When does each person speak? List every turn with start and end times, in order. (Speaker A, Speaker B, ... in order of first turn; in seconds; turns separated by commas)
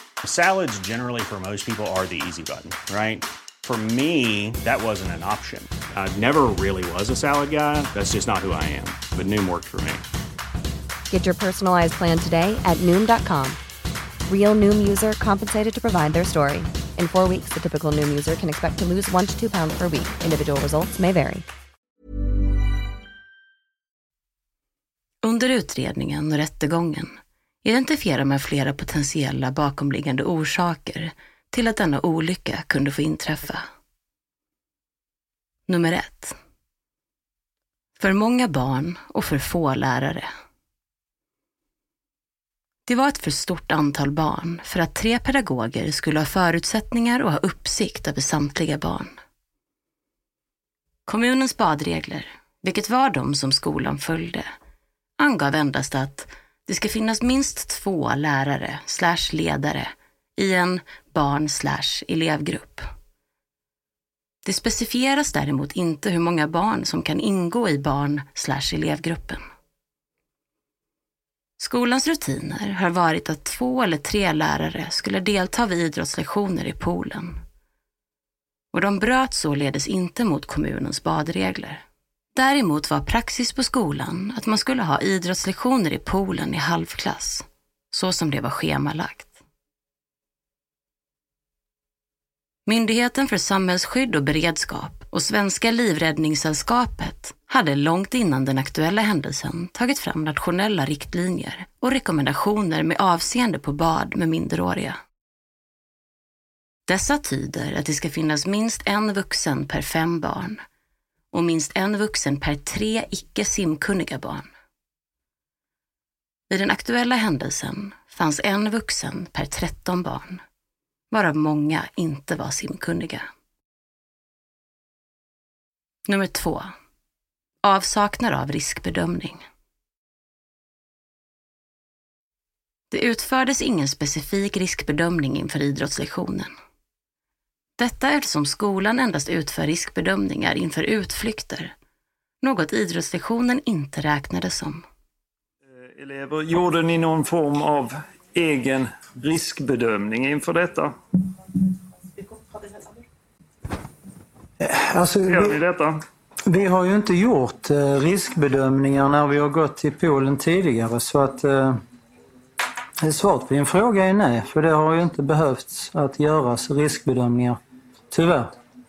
Speaker A: 0.2-10.0, Speaker B: 11.1-13.6, Speaker B: 14.3-21.4, Speaker C: 25.2-33.6, Speaker C: 35.7-36.3, Speaker C: 38.0-40.3, Speaker C: 42.9-49.1, Speaker C: 51.1-54.5, Speaker C: 55.2-62.8, Speaker C: 64.4-69.4, Speaker C: 71.6-77.4, Speaker C: 78.7-81.8, Speaker C: 82.3-89.3, Speaker C: 92.7-105.0, Speaker C: 106.9-110.6, Speaker C: 111.3-114.5, Speaker C: 116.5-120.4, Speaker C: 121.1-123.2, Speaker C: 126.1-126.7, Speaker C: 127.6-129.4, Speaker C: 132.9-136.5, Speaker C: 137.8-141.7, Speaker C: 142.4-144.8, Speaker D: 145.7-150.9, Speaker E: 154.6-155.6, Speaker D: 155.3-156.0, Speaker E: 156.4-161.8, Speaker E: 163.0-167.6, Speaker E: 168.1-168.5